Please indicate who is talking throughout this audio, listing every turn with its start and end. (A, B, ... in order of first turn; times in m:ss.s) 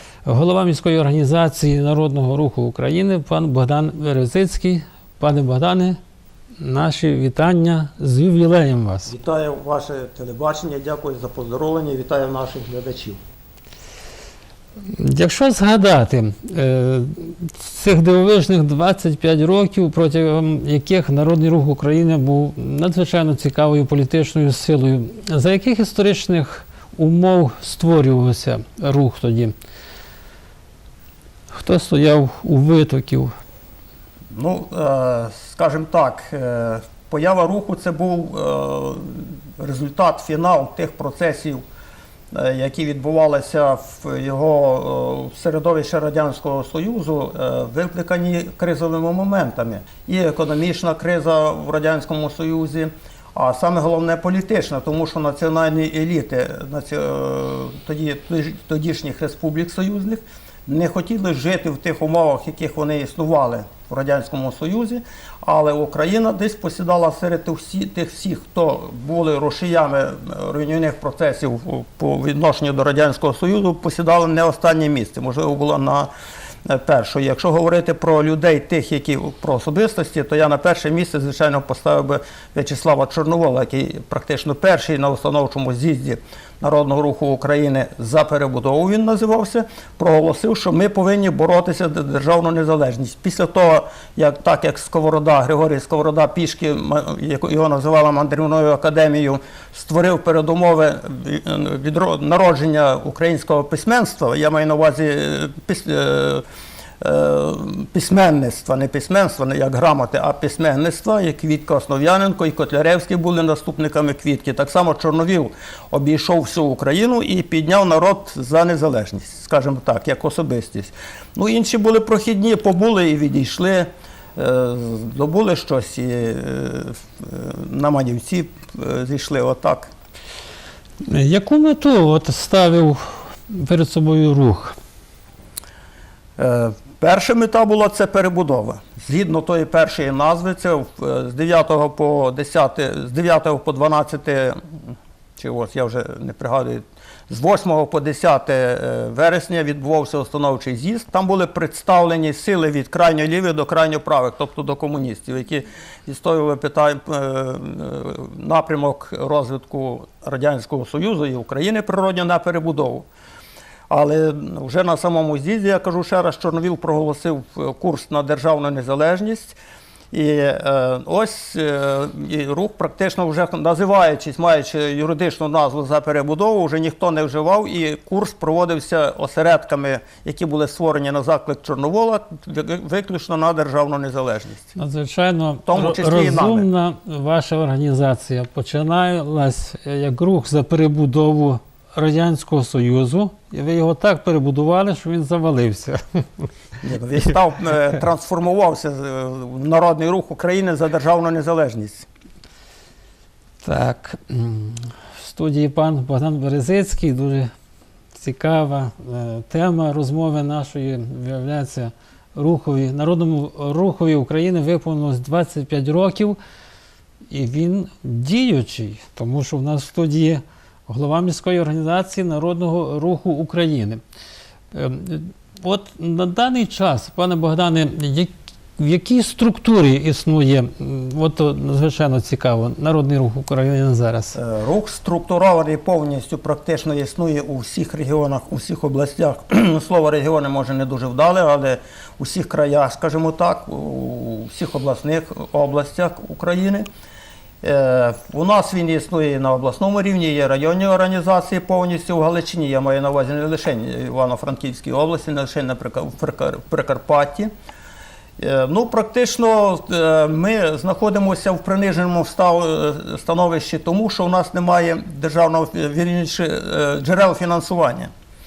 0:00.2-0:06.0 A
0:06.6-0:09.1 A
0:09.1-0:13.2 B
0:14.8-0:29.5 A
0:31.5-0:33.3 A
0:34.3-0:41.6 B
0:42.3-1:16.1 B
1:16.6-1:46.4 B
1:47.0-2:09.9 B
2:11.0-2:14.8 A
2:16.4-2:43.1 B
2:43.9-2:49.6 B
2:50.1-3:04.7 B
3:04.7-3:16.5 A
3:05.6-3:06.7 B
3:16.8-3:22.0 B
3:23.6-3:27.5 A
3:28.1-3:36.4 A
3:37.3-3:44.0 A
3:44.7-3:54.4 A
3:54.3-4:06.8 B
4:07.6-4:17.5 B
4:18.4-4:28.1 B